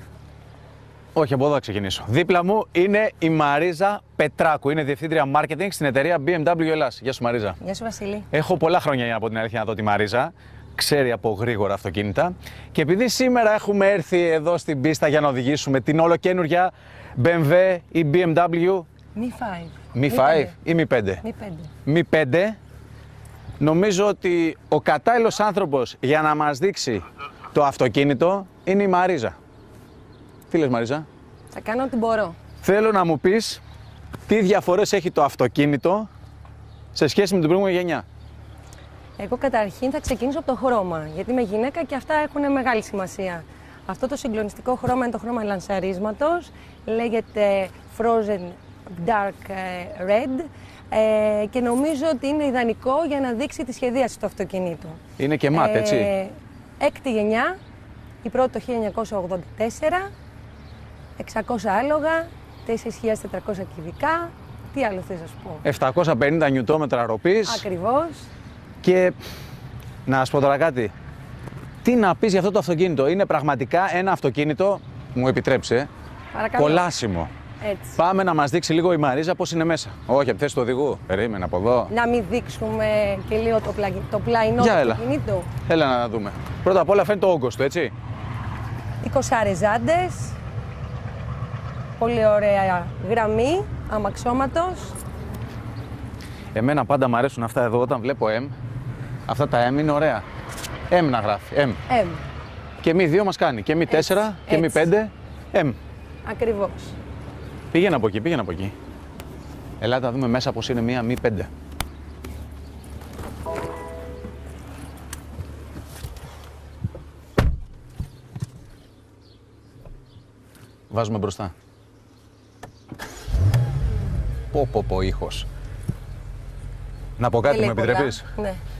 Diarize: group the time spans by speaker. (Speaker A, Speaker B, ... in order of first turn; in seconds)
Speaker A: 1.1-7.6, 8.3-18.9, 19.9-21.2, 21.9-22.6, 23.6-29.4, 30.5-31.1, 32.6-33.6, 34.3-36.1, 36.9-38.0, 55.2-56.1, 65.6-67.6, 68.8-69.2, 70.0-70.9, 71.8-75.9, 76.5-77.3, 78.0-81.9, 84.6-85.0, 85.6-87.9, 96.5-98.5, 99.3-100.2, 100.9-101.8, 102.8-105.8, 107.7-108.7, 109.8-111.5, 120.9-121.5, 124.5-125.5, 127.2-128.2
Speaker B: 7.6-8.3, 19.1-20.6, 21.2-21.7, 31.5-32.4, 39.2-55.0, 55.5-57.6, 58.2-60.1, 61.2-65.6, 67.4-68.3, 76.3-76.8, 77.6-78.0, 81.9-85.5, 89.0-90.4, 92.0-95.0, 101.9-102.2, 103.9-104.9, 106.2-107.0, 127.4-128.6